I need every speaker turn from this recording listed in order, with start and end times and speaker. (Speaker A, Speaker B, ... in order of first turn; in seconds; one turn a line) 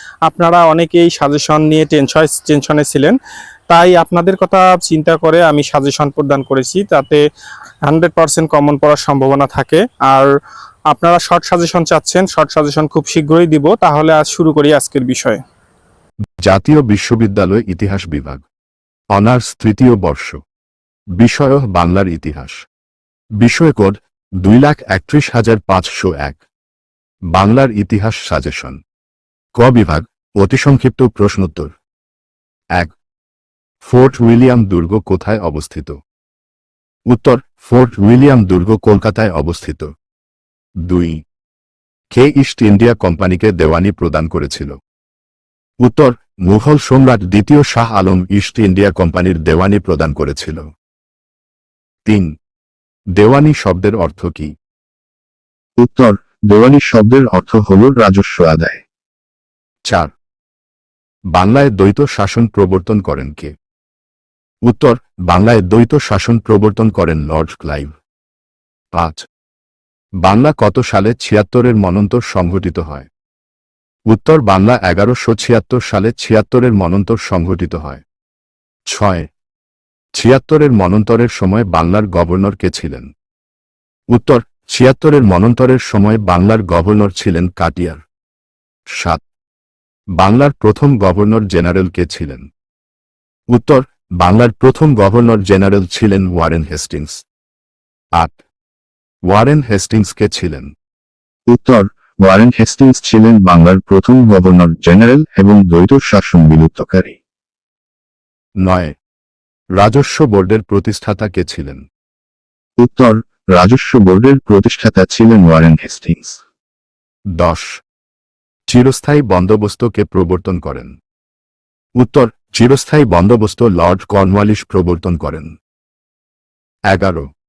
Speaker A: 0.3-3.1
Speaker A: 3.7-7.2
Speaker A: 7.9-10.3
Speaker A: 10.9-15.4
Speaker B: 16.4-18.4
Speaker B: 19.1-20.4
Speaker B: 21.2-22.6
Speaker B: 23.4-26.4
Speaker B: 27.3-28.8
Speaker B: 29.6-31.8
Speaker B: 33.8-36.0
Speaker B: 37.1-39.9
Speaker B: 40.9-41.2
Speaker B: 42.1-44.8
Speaker B: 45.8-50.7
Speaker B: 53.2-54.5
Speaker C: 55.8-58.8
Speaker B: 61.3-63.5
Speaker B: 64.7-68.0
Speaker B: 68.9-69.2
Speaker B: 70.2-73.1
Speaker B: 74.1-78.0
Speaker B: 78.9-79.3
Speaker B: 80.2-83.1
Speaker B: 84.1-88.0
Speaker B: 88.9-89.2
Speaker B: 90.2-92.5
Speaker B: 93.5-97.2
Speaker B: 99.3-100.7
Speaker C: 101.5-107.2
Speaker B: 108.6-109.0
Speaker B: 109.8-111.8
Speaker C: 112.8-116.4
Speaker B: 117.4-117.8
Speaker B: 118.7-121.0
Speaker B: 122.0-125.5
Speaker B: 126.9-127.3